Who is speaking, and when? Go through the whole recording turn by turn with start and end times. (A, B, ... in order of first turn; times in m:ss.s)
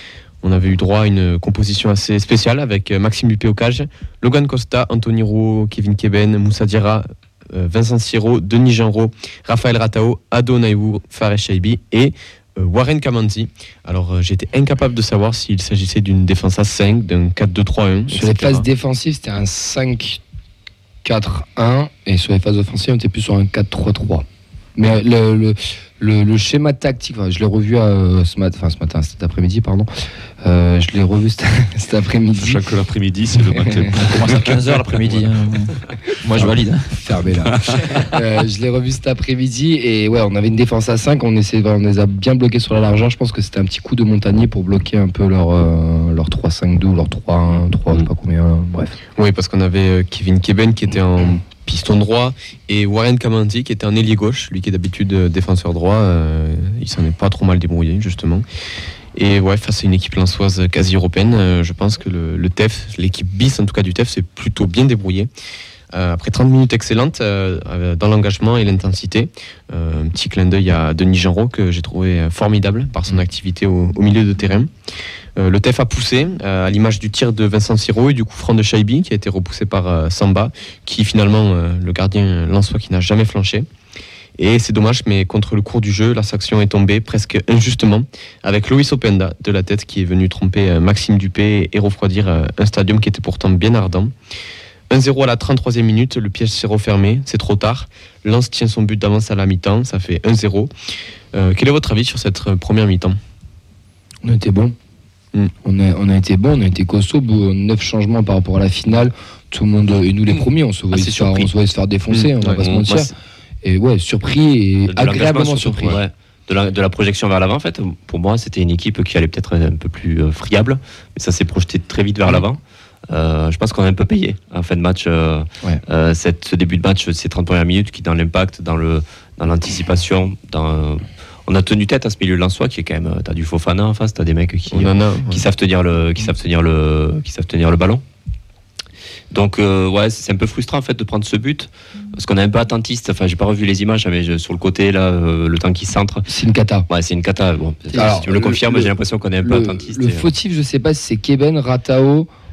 0:00.4-0:18.6 A
0:18.1-0:20.2 B
0:21.0-0:29.9 B
0:30.4-0:32.6 B
0:32.4-0:35.3 C
0:33.5-0:34.0 B
0:34.0-0:36.9 D
0:37.0-0:49.0 B
0:37.5-0:38.1 C
0:49.2-0:58.4 A
0:59.2-1:05.3 A
1:05.9-1:14.7 A
1:15.4-1:23.7 A
1:24.4-1:34.2 A
1:34.9-1:40.7 A
1:41.3-1:43.2 A
1:44.2-1:44.8 B
1:45.6-1:53.1 B
1:50.9-1:51.5 E
1:52.1-1:53.1 A
1:52.6-1:52.9 E
1:53.6-1:56.0 B
1:54.9-2:18.0 E
2:14.7-2:15.4 A
2:19.3-2:26.3 E
2:26.3-2:26.9 B
2:26.9-2:30.3 E
2:27.9-2:32.3 B